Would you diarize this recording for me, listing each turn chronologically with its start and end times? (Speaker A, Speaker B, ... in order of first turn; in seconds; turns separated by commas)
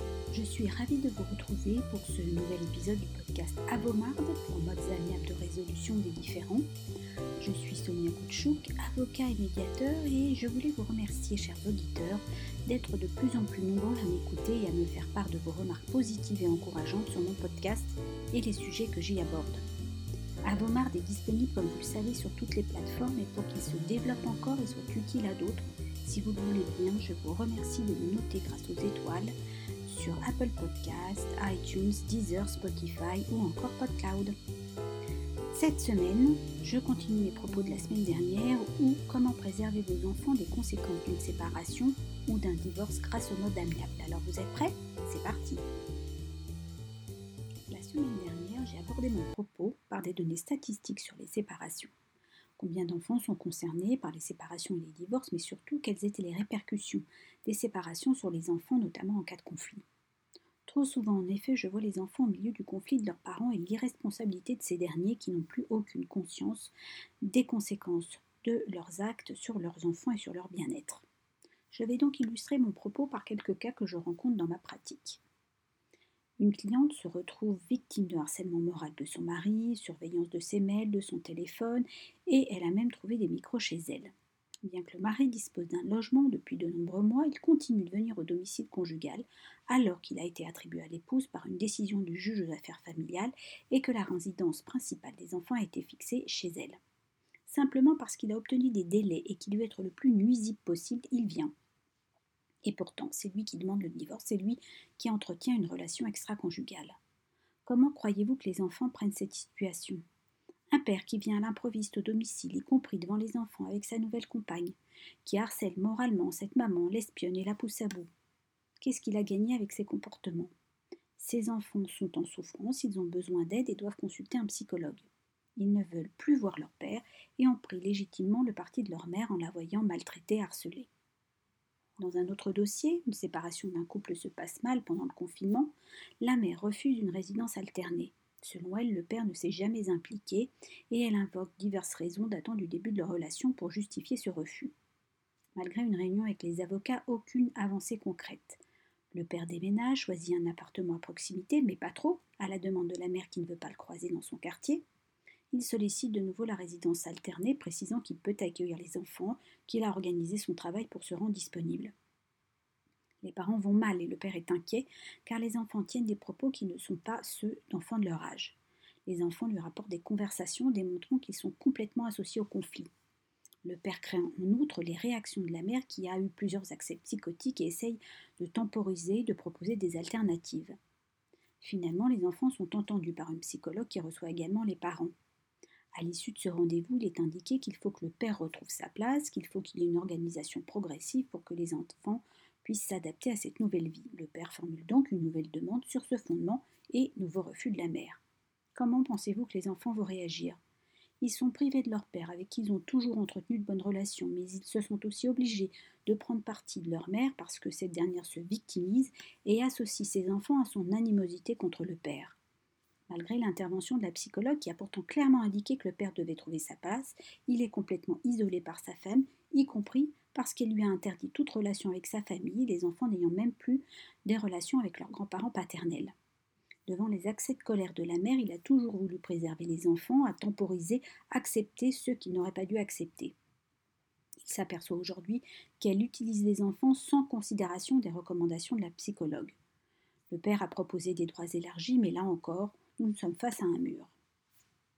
Speaker A: 0.3-6.7, Speaker A: 7.4-19.6, Speaker A: 20.5-29.3, Speaker A: 29.9-34.3, Speaker A: 35.5-45.6, Speaker A: 47.7-51.9, Speaker A: 52.6-59.8, Speaker A: 60.7-66.7, Speaker A: 67.2-71.0, Speaker A: 71.7-75.2, Speaker A: 76.4-84.1, Speaker A: 84.7-96.8, Speaker A: 97.5-101.5, Speaker A: 102.7-107.0, Speaker A: 107.7-110.0, Speaker A: 110.7-118.1, Speaker A: 118.8-120.5, Speaker A: 121.2-125.1, Speaker A: 125.6-130.9, Speaker A: 132.0-144.7, Speaker A: 145.6-148.6, Speaker A: 149.1-154.8, Speaker A: 155.5-161.9, Speaker A: 163.2-172.9, Speaker A: 173.7-180.8, Speaker A: 181.6-185.1, Speaker A: 185.9-198.2, Speaker A: 198.8-200.6, Speaker A: 201.2-212.4, Speaker A: 213.1-226.1, Speaker A: 226.9-233.3, Speaker A: 234.4-239.6, Speaker A: 240.3-244.1